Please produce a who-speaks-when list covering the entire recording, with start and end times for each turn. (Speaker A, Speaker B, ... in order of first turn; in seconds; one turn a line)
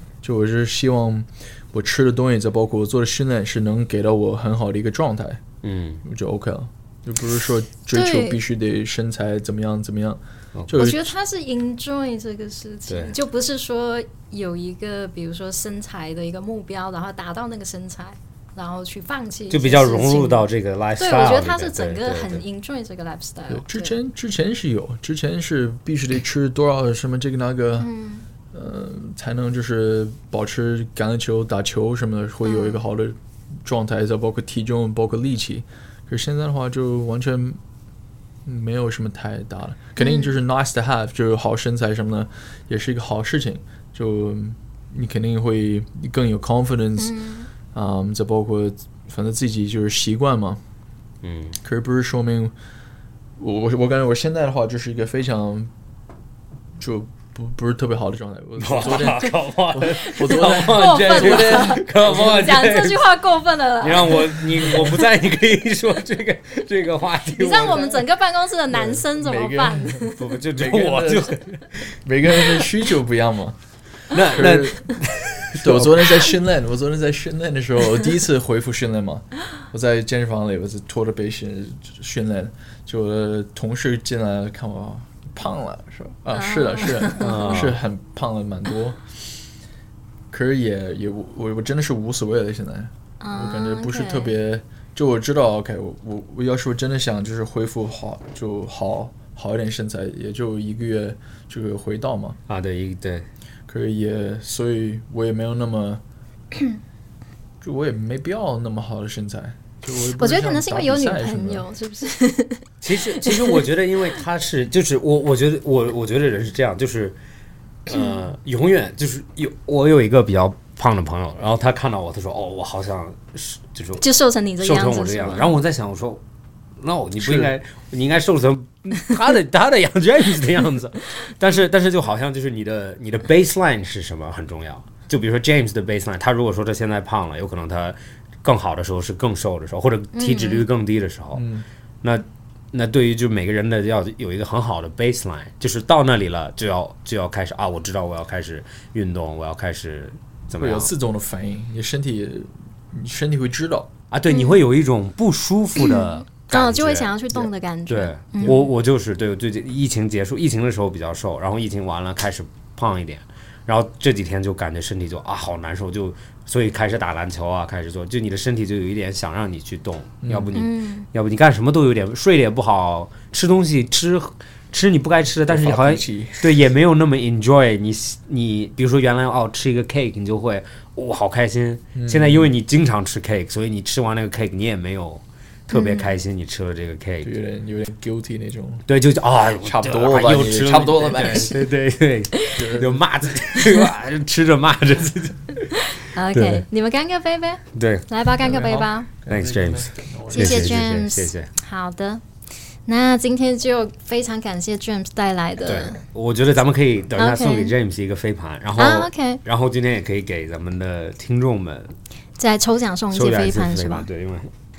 Speaker A: 0.2-5.4
Speaker B: 5.6-6.0
Speaker A: 6.0-11.1
Speaker C: 7.9-8.4
Speaker C: 10.7-20.4
Speaker B: 12.9-13.1
Speaker B: 19.5-22.4
Speaker C: 21.0-24.0
Speaker A: 23.5-27.9
Speaker C: 27.8-28.2
Speaker A: 28.5-37.6
Speaker C: 32.4-32.8
Speaker A: 38.4-47.2
Speaker C: 40.0-40.3
Speaker C: 47.0-47.5
Speaker A: 47.7-50.6
Speaker B: 51.2-51.6
Speaker A: 51.6-52.5
Speaker A: 53.4-55.7
Speaker A: 56.8-62.5
Speaker B: 58.6-63.2
Speaker C: 59.9-64.6
Speaker B: 63.8-68.0
Speaker A: 64.6-65.1
Speaker C: 67.3-70.2
Speaker A: 68.7-71.4
Speaker B: 70.2-72.7
Speaker A: 72.0-73.6
Speaker B: 74.1-76.3
Speaker A: 74.3-74.9
Speaker A: 75.5-89.4
Speaker C: 86.3-87.6
Speaker B: 87.2-87.8
Speaker A: 90.3-102.4
Speaker C: 93.2-94.3
Speaker B: 102.5-103.3
Speaker A: 103.7-106.0
Speaker A: 107.6-111.7
Speaker C: 110.2-113.6
Speaker B: 112.8-117.2
Speaker B: 117.8-124.0
Speaker C: 124.0-125.6
Speaker B: 124.6-126.2
Speaker B: 126.8-141.4
Speaker A: 127.2-127.5
Speaker C: 140.1-140.7
Speaker A: 141.3-141.7
Speaker B: 142.0-150.9
Speaker A: 150.6-153.9
Speaker B: 154.1-157.4
Speaker C: 154.3-154.6
Speaker C: 155.8-158.7
Speaker B: 157.9-187.3
Speaker A: 158.4-158.6
Speaker A: 170.2-170.5
Speaker C: 170.5-171.1
Speaker A: 175.5-176.5
Speaker A: 181.9-182.5
Speaker C: 185.7-186.2
Speaker A: 187.2-188.8
Speaker B: 188.9-195.8
Speaker A: 189.6-191.7
Speaker A: 192.5-193.4
Speaker C: 193.6-193.9
Speaker C: 195.9-199.1
Speaker B: 196.3-196.6
Speaker B: 197.7-198.1
Speaker A: 198.4-200.8
Speaker B: 199.3-201.5
Speaker C: 200.3-202.2
Speaker C: 202.8-206.0
Speaker B: 205.6-211.9
Speaker C: 207.2-207.7
Speaker C: 208.8-209.4
Speaker C: 212.4-214.1
Speaker B: 213.1-214.5